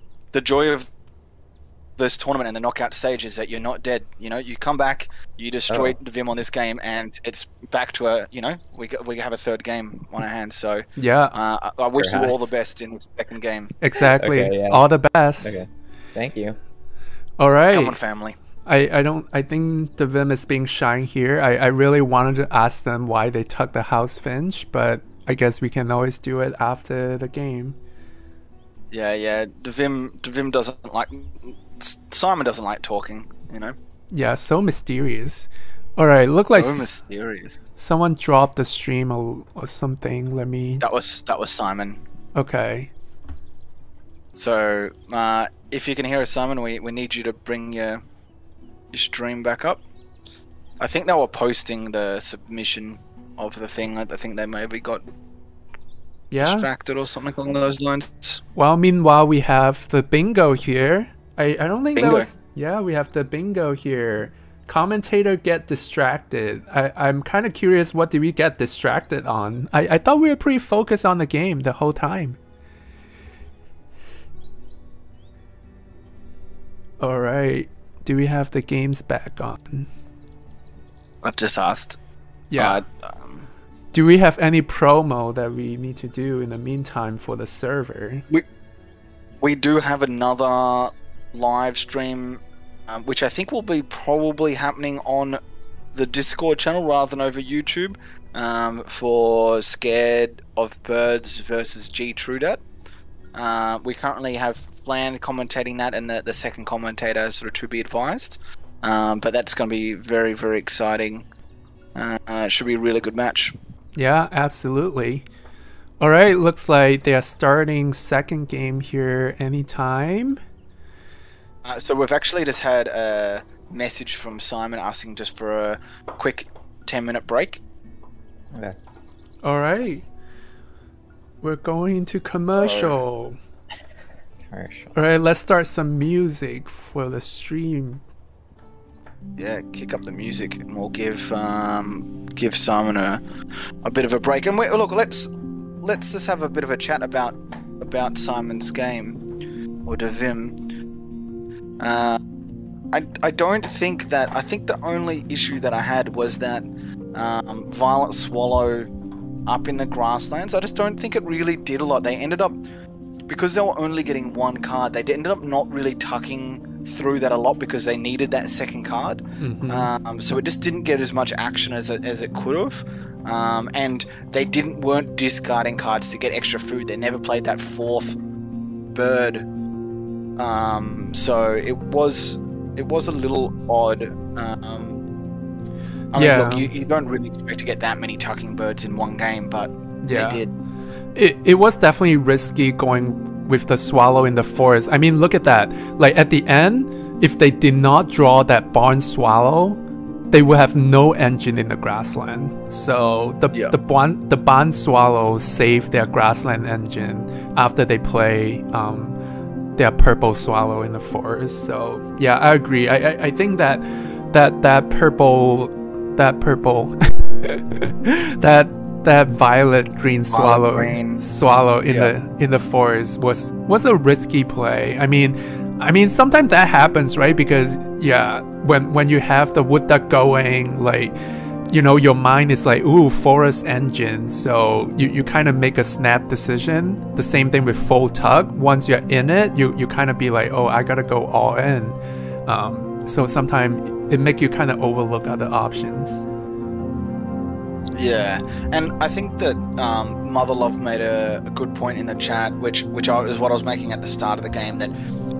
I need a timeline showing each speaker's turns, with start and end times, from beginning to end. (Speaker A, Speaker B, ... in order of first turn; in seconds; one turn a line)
Speaker A: 0.3-0.9
Speaker A: 2.0-13.8
Speaker B: 5.7-6.0
Speaker C: 11.0-11.4
Speaker B: 12.0-12.6
Speaker C: 13.8-15.6
Speaker B: 14.2-14.8
Speaker B: 15.4-16.6
Speaker C: 17.4-18.0
Speaker A: 17.7-18.4
Speaker C: 18.6-27.8
Speaker A: 28.9-33.7
Speaker C: 34.1-36.9
Speaker A: 36.5-37.6
Speaker C: 37.8-40.8
Speaker A: 40.8-42.0
Speaker C: 42.3-42.9
Speaker A: 44.3-48.0
Speaker A: 48.9-49.8
Speaker A: 50.8-55.0
Speaker C: 56.3-56.7
Speaker A: 56.4-58.4
Speaker C: 58.5-72.4
Speaker A: 61.9-62.3
Speaker C: 77.0-79.9
Speaker A: 81.2-82.0
Speaker C: 82.5-82.8
Speaker A: 82.5-83.5
Speaker C: 83.9-88.2
Speaker A: 89.4-95.4
Speaker A: 95.9-102.6
Speaker A: 103.3-111.3
Speaker A: 111.9-113.5
Speaker C: 114.0-115.2
Speaker C: 116.0-120.4
Speaker A: 121.6-127.6
Speaker C: 129.4-130.0
Speaker C: 131.4-133.4
Speaker A: 132.5-133.0
Speaker B: 134.5-134.9
Speaker C: 134.9-138.0
Speaker A: 139.3-143.2
Speaker A: 143.8-145.3
Speaker A: 145.8-149.2
Speaker A: 149.8-150.6
Speaker A: 151.8-152.2
Speaker A: 152.9-158.9
Speaker A: 159.5-162.6
Speaker A: 163.3-178.2
Speaker C: 169.4-169.9
Speaker A: 178.9-179.4
Speaker A: 180.4-185.0
Speaker A: 186.1-190.5
Speaker C: 186.1-186.7
Speaker C: 190.0-190.4
Speaker C: 191.1-199.8
Speaker C: 200.3-209.2
Speaker C: 209.8-231.2
Speaker A: 220.3-221.2
Speaker C: 231.7-246.2
Speaker A: 247.9-254.9